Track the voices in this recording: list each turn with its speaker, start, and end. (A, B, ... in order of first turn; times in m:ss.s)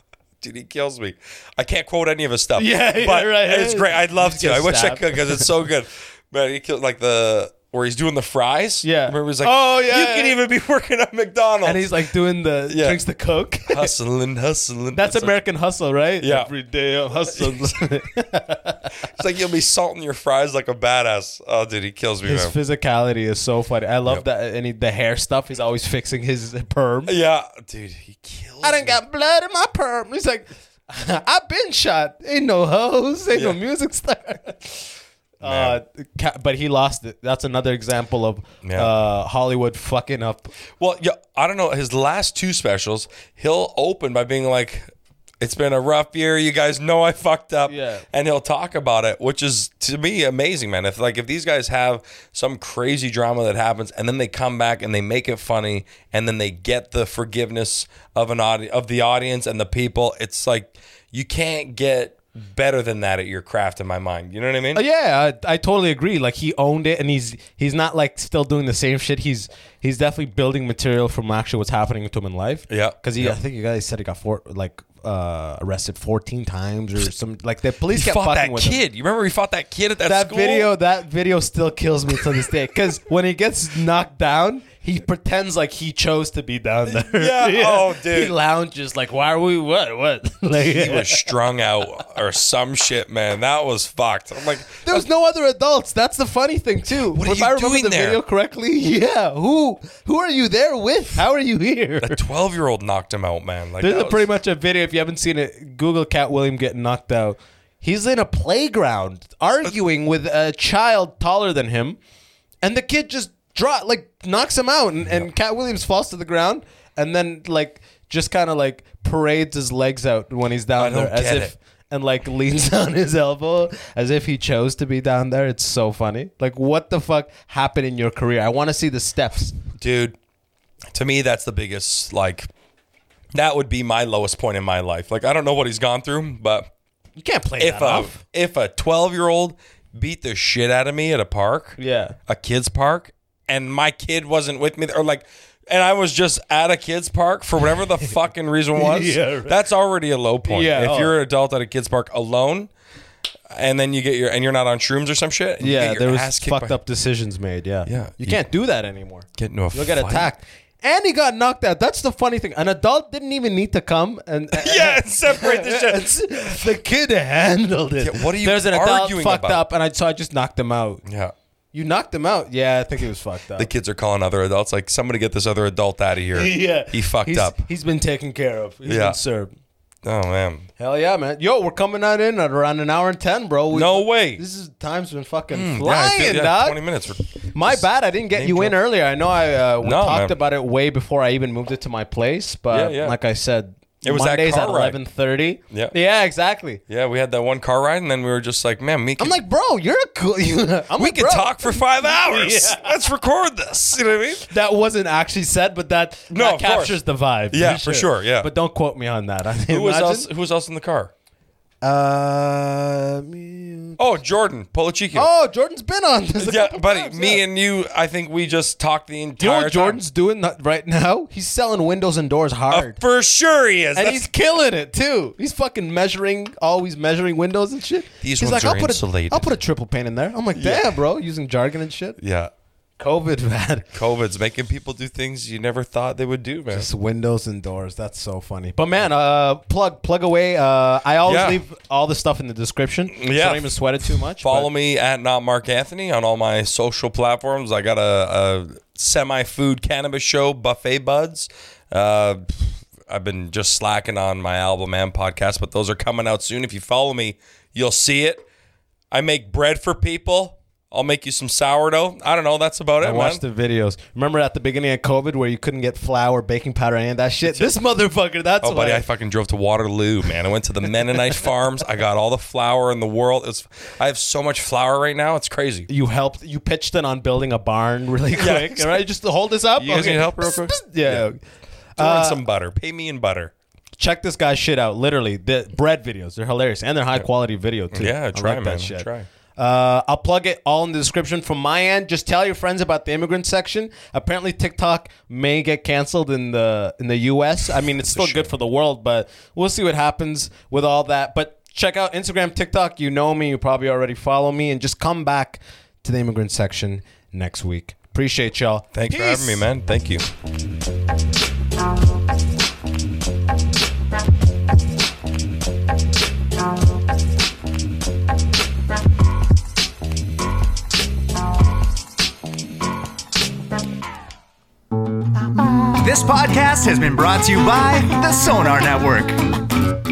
0:00.4-0:12.0 A
0:02.6-0:05.5 B
0:08.8-0:10.4 B
0:11.6-0:13.9 B
0:12.7-0:13.0 A
0:13.7-0:15.4 A
0:14.9-0:18.9 B
0:16.2-0:16.5 A
0:17.3-0:17.7 A
0:19.1-0:22.6 A
0:22.2-0:27.1 B
0:27.0-0:29.0 A
0:28.6-0:40.5 B
0:33.3-0:33.6 A
0:35.4-0:35.8 A
0:38.6-0:38.9 A
0:40.8-0:44.9 A
0:45.4-1:04.8 A
0:47.7-0:48.0 B
1:04.7-1:18.8 B
1:12.7-1:13.4 A
1:17.9-1:20.7 A
1:20.0-1:31.2 B
1:26.9-1:28.3 A
1:30.6-1:35.0 A
1:34.8-1:42.2 B
1:37.0-1:38.2 A
1:42.0-1:44.3 A
1:43.8-1:52.0 B
1:52.6-2:09.6 B
2:00.8-2:01.5 A
2:09.8-2:10.2 A
2:10.9-2:12.5 A
2:13.3-2:16.7 A
2:17.2-2:18.2 B
2:17.6-2:32.7 A
2:21.8-2:22.1 B
2:28.8-2:29.6 B
2:30.5-2:31.1 B
2:33.5-2:36.8 A
2:35.6-2:51.0 B
2:37.8-2:38.4 A
2:39.4-2:40.3 A
2:44.6-2:46.7 A
2:48.0-2:49.6 A
2:51.0-2:51.3 A
2:51.7-2:53.7 B
2:53.6-2:57.6 A
2:56.3-2:59.5 B
2:58.8-2:59.2 A
3:00.0-3:00.7 A
3:00.8-3:06.8 B
3:03.7-3:04.4 A
3:05.5-3:08.8 A
3:07.5-3:16.8 B
3:09.8-3:10.4 A
3:12.7-3:13.2 A
3:14.0-3:15.0 A
3:16.9-3:19.4 A
3:19.2-3:23.0 B
3:21.0-3:24.5 A
3:24.5-3:30.3 B
3:26.3-3:28.5 A
3:29.7-3:31.1 A
3:31.8-3:34.0 B
3:34.0-3:35.3 A
3:35.1-3:37.4 B
3:36.4-3:40.0 A
3:39.4-3:43.0 B
3:42.7-3:44.2 A
3:43.9-3:52.2 B
3:48.2-3:49.5 A
3:50.5-3:51.0 A
3:52.2-3:52.5 A
3:53.0-3:53.9 B
3:53.9-3:56.9 A
3:56.7-4:04.7 B
4:01.2-4:01.6 A
4:03.1-4:03.8 A
4:04.4-4:18.4 A
4:19.1-4:23.4 A
4:23.0-4:29.0 B
4:27.4-4:27.7 A
4:28.6-4:35.9 A
4:35.9-4:41.4 B
4:38.4-4:39.0 A
4:39.8-4:41.2 A
4:42.0-4:42.4 B
4:42.0-4:43.5 A
4:44.0-5:09.6 B
4:47.9-4:49.3 A
4:58.1-4:58.5 A
5:08.9-5:10.2 A
5:26.0-5:29.4 C